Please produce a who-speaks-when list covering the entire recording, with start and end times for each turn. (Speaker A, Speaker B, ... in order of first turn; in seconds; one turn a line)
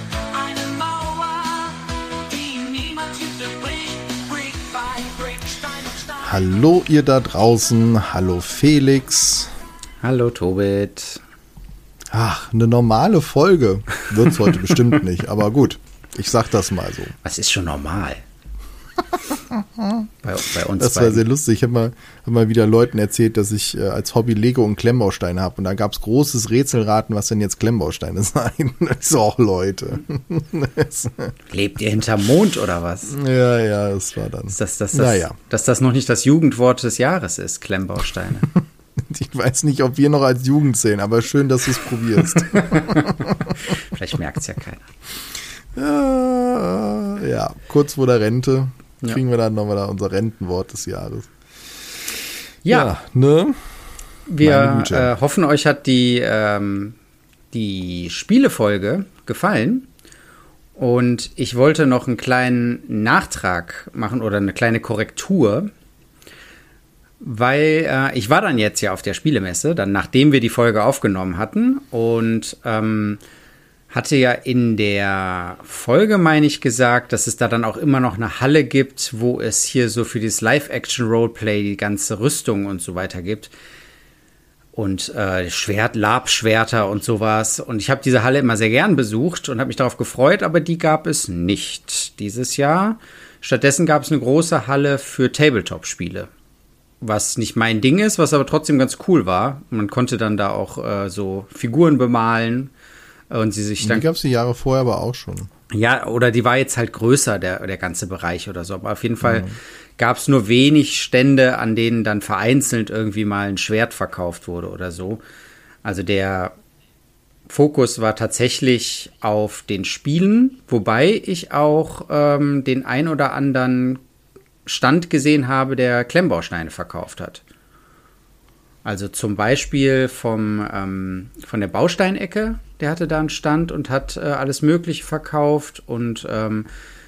Speaker A: 0.3-6.4
Speaker B: 6.2-9.5
Speaker C: 10.0-11.2
Speaker B: 12.1-17.1
Speaker C: 17.2-18.2
Speaker B: 19.3-20.1
Speaker C: 20.2-21.2
Speaker B: 20.8-31.3
Speaker C: 31.5-33.1
Speaker B: 33.1-35.4
Speaker C: 34.5-38.5
Speaker B: 38.5-43.8
Speaker C: 42.3-44.8
Speaker B: 45.7-51.3
Speaker C: 52.6-52.9
Speaker B: 52.7-53.6
Speaker C: 54.3-57.0
Speaker B: 54.4-55.1
Speaker C: 57.5-59.9
Speaker C: 60.8-65.7
Speaker C: 67.2-73.2
Speaker C: 73.9-83.5
Speaker C: 84.7-96.3
Speaker C: 97.0-102.7
Speaker C: 103.3-104.0
Speaker B: 103.8-105.5
Speaker C: 105.7-115.2
Speaker B: 109.2-109.5
Speaker C: 115.8-116.5
Speaker C: 117.5-124.0
Speaker C: 124.7-127.4
Speaker C: 128.8-136.7